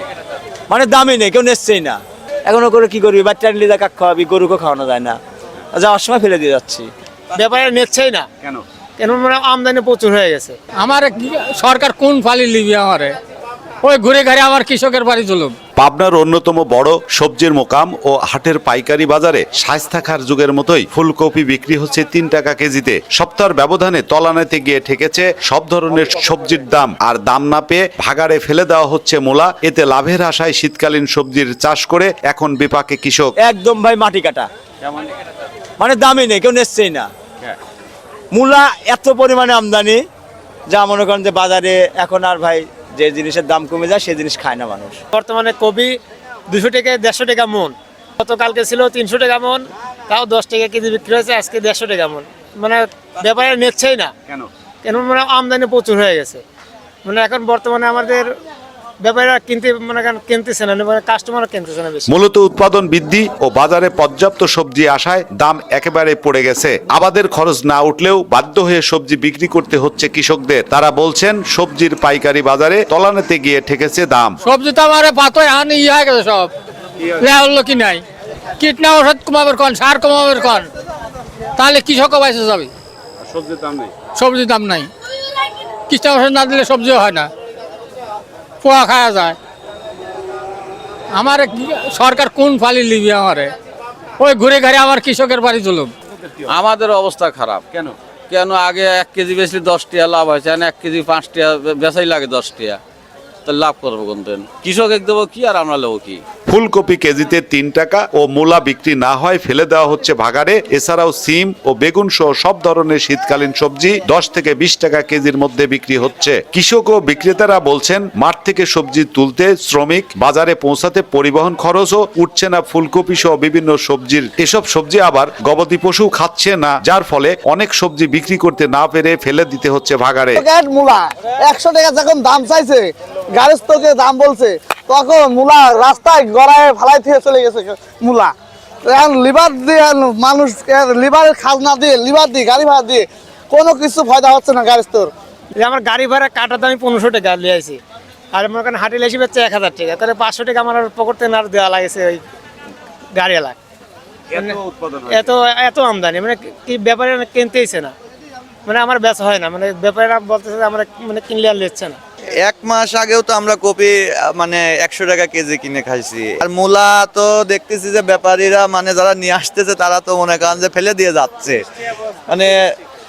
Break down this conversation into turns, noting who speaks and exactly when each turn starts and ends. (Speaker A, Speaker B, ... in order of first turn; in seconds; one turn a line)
Speaker A: 0.7-5.2
Speaker A: 5.7-6.9
Speaker B: 7.3-8.2
Speaker B: 9.0-10.5
Speaker C: 10.8-13.1
Speaker C: 13.8-15.5
Speaker D: 15.8-33.3
Speaker A: 33.4-34.5
Speaker A: 35.8-37.1
Speaker A: 38.3-40.0
Speaker A: 40.7-45.0
Speaker B: 45.1-45.9
Speaker B: 46.5-54.1
Speaker B: 54.8-56.4
Speaker B: 57.0-58.3
Speaker B: 59.0-62.2
Speaker D: 62.1-74.3
Speaker C: 74.4-76.5
Speaker C: 77.2-78.0
Speaker C: 78.6-80.7
Speaker C: 81.6-82.7
Speaker E: 83.2-84.0
Speaker C: 84.1-84.9
Speaker C: 85.9-87.3
Speaker C: 88.6-89.4
Speaker C: 91.1-93.5
Speaker C: 94.2-95.9
Speaker E: 96.4-102.8
Speaker E: 103.5-106.2
Speaker D: 106.5-130.4
Speaker F: 130.3-138.3
Speaker F: 138.8-145.1
Speaker B: 145.6-147.8
Speaker B: 148.3-152.2
Speaker B: 153.1-153.6
Speaker B: 154.3-157.9
Speaker B: 158.7-162.0
Speaker G: 162.4-171.6
Speaker G: 172.3-172.6